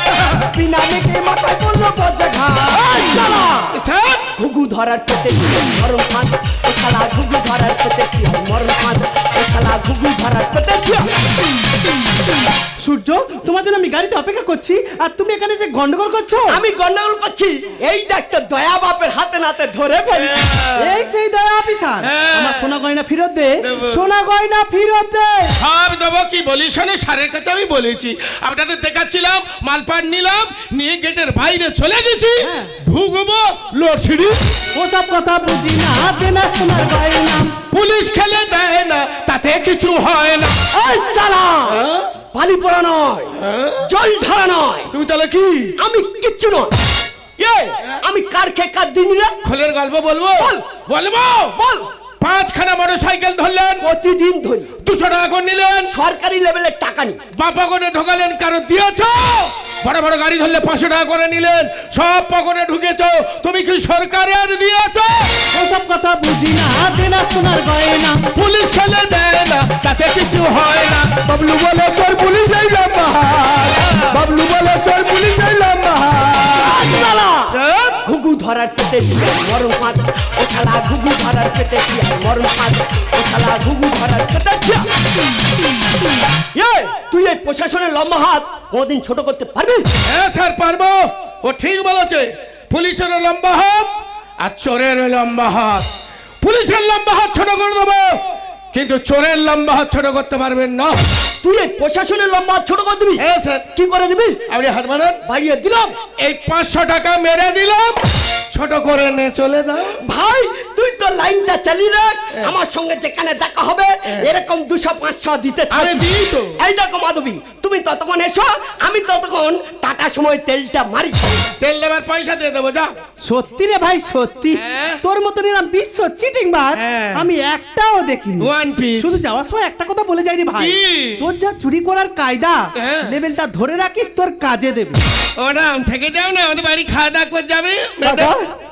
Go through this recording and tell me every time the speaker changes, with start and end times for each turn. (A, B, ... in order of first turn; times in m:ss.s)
0:00.4-0:03.0 A
0:02.8-0:03.8 B
0:03.7-0:04.3 C
0:04.4-0:11.1 B
0:12.8-0:16.6 D
0:16.5-0:20.4 B
0:20.1-0:21.1 C
0:20.8-0:25.5 D
0:22.0-0:22.7 C
0:23.6-0:24.0 C
0:25.6-0:34.4 C
0:32.4-0:32.7 D
0:34.7-0:37.5 D
0:37.7-0:40.6 C
0:40.7-0:44.9 B
0:41.7-0:42.1 C
0:43.4-0:43.8 C
0:44.9-0:45.7 C
0:45.8-0:46.7 B
0:47.4-0:49.3 B
0:49.4-0:51.6 C
0:50.4-0:50.6 B
0:51.5-0:51.9 B
0:52.2-0:53.8 C
0:53.8-0:54.7 B
0:54.8-0:55.9 C
0:55.9-0:57.2 B
0:57.3-1:05.4 C
1:05.5-1:08.2 D
1:08.3-1:11.1 C
1:11.2-1:16.9 E
1:16.5-1:24.9 B
1:17.5-1:18.0 C
1:26.5-1:29.9 B
1:30.0-1:35.9 C
1:36.4-1:38.2 C
1:38.7-1:41.0 C
1:41.4-1:44.4 B
1:43.2-1:43.6 C
1:44.5-1:45.2 C
1:45.2-1:46.0 B
1:46.2-1:48.0 C
1:48.5-1:50.0 C
1:50.0-2:01.4 B
1:55.7-1:56.5 C
2:01.6-2:02.9 C
2:03.2-2:15.0 D
2:04.5-2:05.0 C
2:06.7-2:07.3 C
2:08.4-2:09.2 C
2:10.5-2:11.3 C
2:12.8-2:13.1 C
2:15.4-2:18.3 C
2:18.0-2:18.5 E